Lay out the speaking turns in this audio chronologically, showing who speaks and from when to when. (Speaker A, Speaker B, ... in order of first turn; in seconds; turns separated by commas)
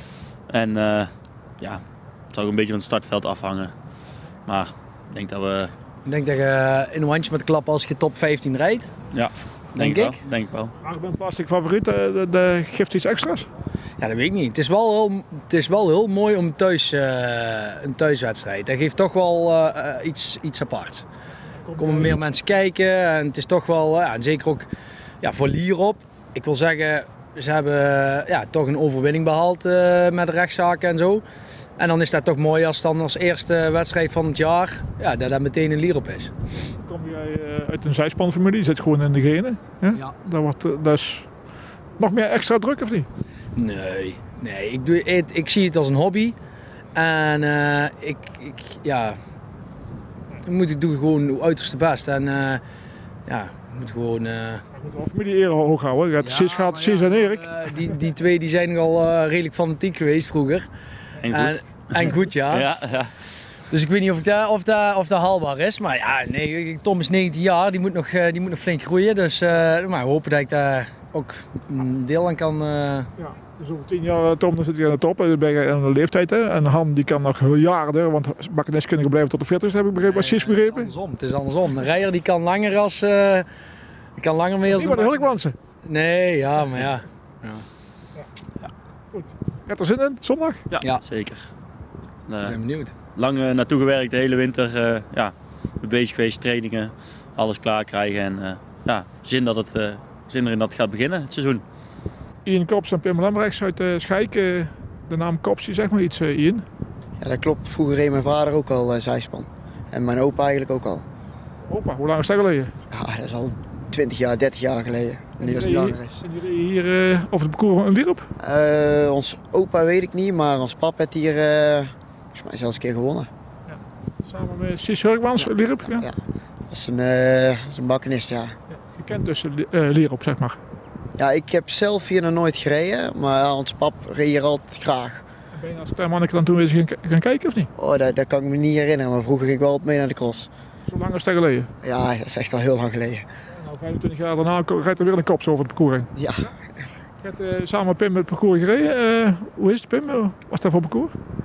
Speaker A: 0.5-3.7, Speaker A: 4.5-5.7, Speaker B: 6.0-8.9, Speaker A: 9.1-10.7, Speaker B: 9.7-10.2, Speaker C: 10.8-13.5, Speaker B: 14.0-21.1, Speaker C: 21.7-22.2, Speaker B: 21.8-24.7, Speaker B: 25.2-31.2, Speaker B: 31.8-36.3, Speaker C: 36.9-41.3, Speaker C: 42.0-43.1, Speaker B: 43.5-46.4, Speaker B: 46.9-49.2, Speaker B: 50.4-52.6, Speaker B: 53.3-54.6, Speaker C: 54.8-57.5, Speaker B: 56.2-60.7, Speaker A: 61.2-63.1, Speaker B: 61.3-62.7, Speaker B: 63.7-73.1, Speaker C: 73.2-80.9, Speaker B: 80.0-83.5, Speaker B: 84.2-87.6, Speaker C: 84.7-85.5, Speaker C: 89.7-90.6, Speaker A: 90.7-91.5, Speaker A: 92.3-92.6, Speaker B: 92.4-92.9, Speaker A: 93.1-101.6, Speaker C: 102.4-106.6, Speaker D: 107.2-111.0, Speaker C: 111.7-112.7, Speaker D: 112.9-116.2, Speaker C: 115.4-118.2, Speaker D: 118.4-123.3, Speaker C: 123.7-126.0, Speaker D: 125.4-126.1, Speaker D: 126.7-128.5, Speaker C: 128.8-130.6, Speaker D: 131.2-135.2, Speaker C: 135.6-137.7, Speaker D: 137.8-140.5, Speaker C: 140.9-141.7, Speaker D: 141.8-143.2, Speaker C: 143.6-146.1, Speaker D: 146.2-146.5, Speaker C: 147.2-151.1